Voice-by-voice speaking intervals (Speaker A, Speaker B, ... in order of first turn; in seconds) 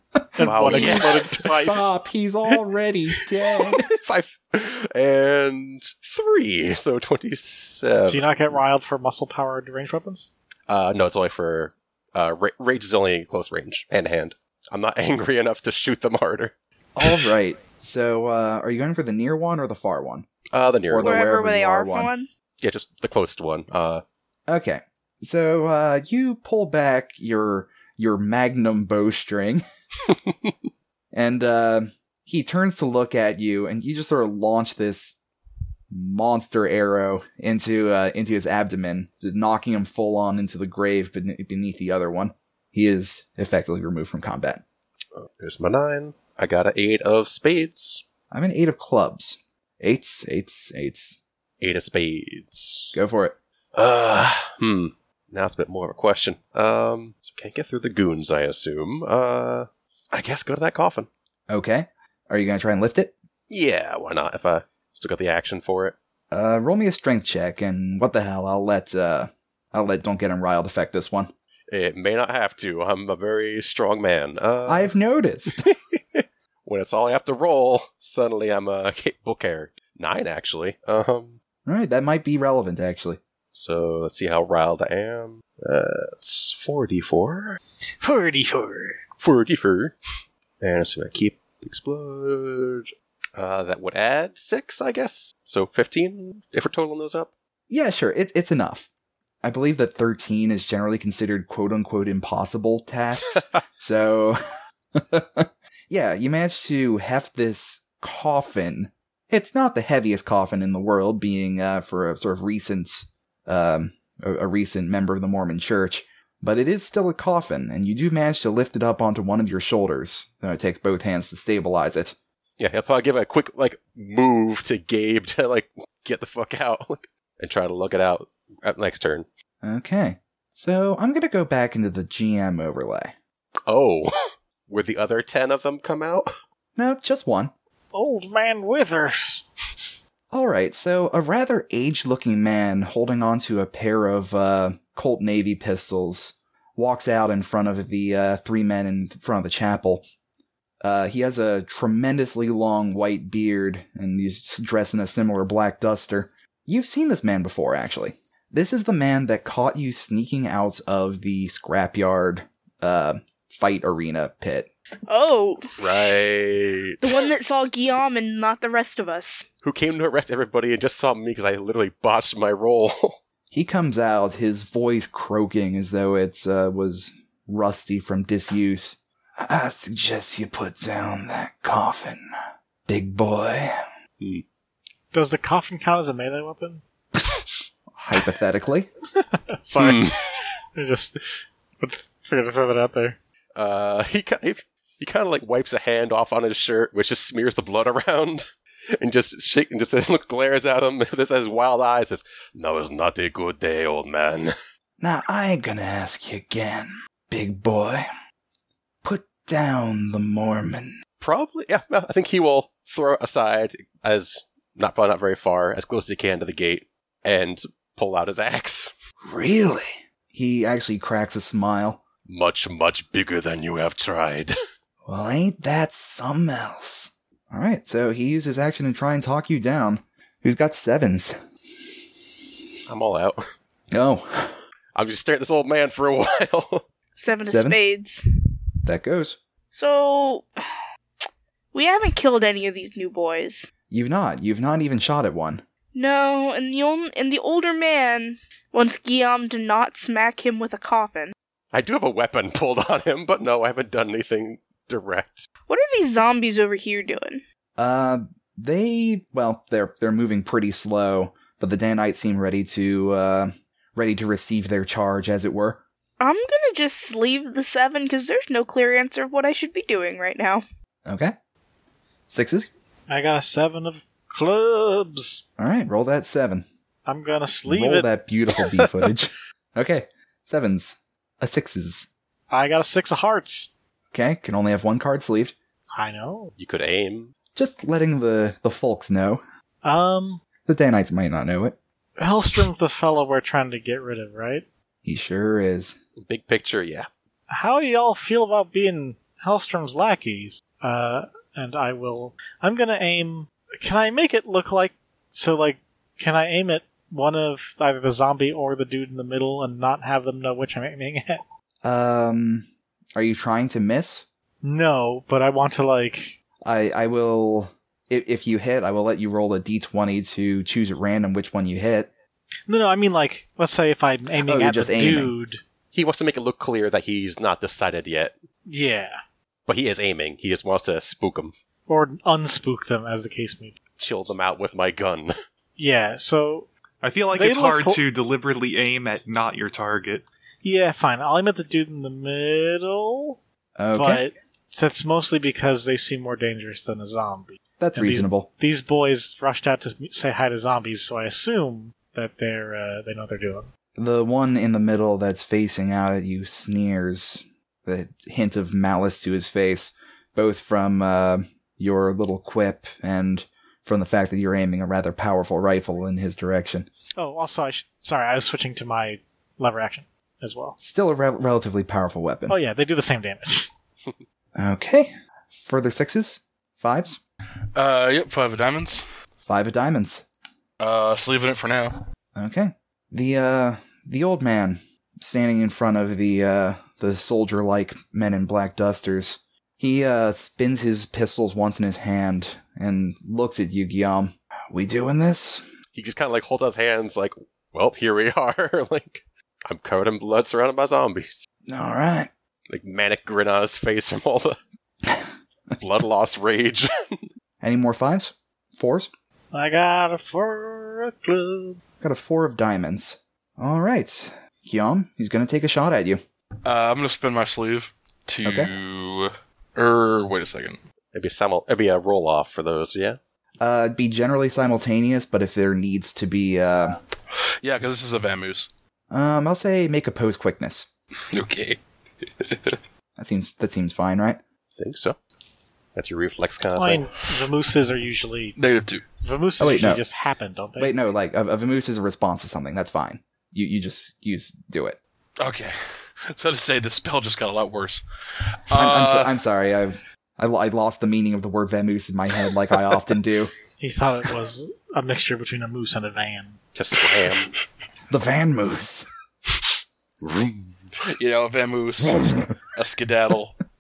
Speaker A: 0.4-1.9, 8.1-10.3, 88.0-89.0, 137.9-139.4, 185.1-186.8, 189.2-190.1, 190.8-191.2, 191.8-193.2, 273.1-275.4, 277.1-278.1, 282.5-283.7, 285.9-286.6, 289.8-290.4, 292.2-294.7, 297.5-311.4, 314.6-316.4, 322.7-325.6, 328.7-329.2, 331.9-333.8, 335.8-336.7, 337.3-338.0, 340.6-343.4, 343.9-353.7, 367.2-370.8, 372.5-373.7, 409.5-411.8, 436.8-438.6, 439.2-441.0, 453.8-456.6
Speaker B: 0.4-3.9, 17.0-20.3, 20.9-22.1, 24.5-29.6, 31.1-35.2, 35.9-44.6, 48.3-51.2, 52.9-53.4, 61.5-63.1, 66.3-71.3, 74.7-75.7, 81.7-83.2, 97.7-98.9, 99.4-104.4, 105.0-122.2, 129.6-133.1, 136.8-137.5, 140.3-150.1, 150.8-164.7, 173.5-182.2, 182.9-183.7, 187.9-188.9, 205.0-208.1, 209.0-210.9, 219.2-222.0, 225.1-232.3, 233.9-234.6, 237.5-237.8, 238.8-239.4, 243.9-245.6, 257.8-265.8, 271.1-271.4, 272.3-272.7, 275.6-276.6, 277.7-282.1, 284.1-285.6, 287.6-289.4, 290.7-291.8, 295.1-296.0, 311.8-314.3, 316.6-322.1, 324.4-325.3, 343.8-344.2, 347.8-348.5, 354.0-366.9, 370.8-372.6, 374.6-377.2, 379.4-380.3, 382.4-395.7, 401.7-402.3, 407.6-409.1, 412.0-416.2, 418.4-418.7, 423.6-427.0, 429.1-430.9, 433.2-434.4, 439.6-440.0, 440.8-445.0, 448.7-453.5, 458.1-459.1
Speaker C: 0.4-1.4, 3.6-8.6, 10.7-16.5, 20.5-21.2, 22.6-24.0, 30.1-30.5, 45.1-48.0, 51.6-53.0, 53.8-61.1, 63.5-66.0, 71.7-74.9, 75.6-81.4, 83.5-87.6, 89.2-90.0, 90.6-97.3, 122.6-129.3, 133.7-136.3, 165.8-167.3, 169.6-173.2, 189.8-190.2, 193.6-198.5, 199.0-204.5, 211.2-218.9, 222.3-224.5, 232.9-233.4, 234.9-236.8, 251.7-255.5, 286.6-287.3, 296.2-297.1, 325.9-328.4, 329.7-331.5, 334.0-335.3, 395.9-401.4, 402.7-404.6, 405.8-407.2, 421.1-423.2, 434.8-435.2, 435.9-437.1, 456.8-457.5, 460.2-461.0
Speaker D: 21.0-22.3, 165.1-166.1, 167.0-169.5, 237.2-238.2, 239.7-240.6, 241.7-243.7, 245.9-251.3, 255.7-257.4, 266.2-270.6
Speaker E: 337.0-340.2
Speaker F: 377.8-379.1, 380.8-382.0, 416.6-420.8, 427.6-428.7, 431.3-432.8, 438.6-439.1, 445.4-448.1, 448.7-449.4, 461.0-463.6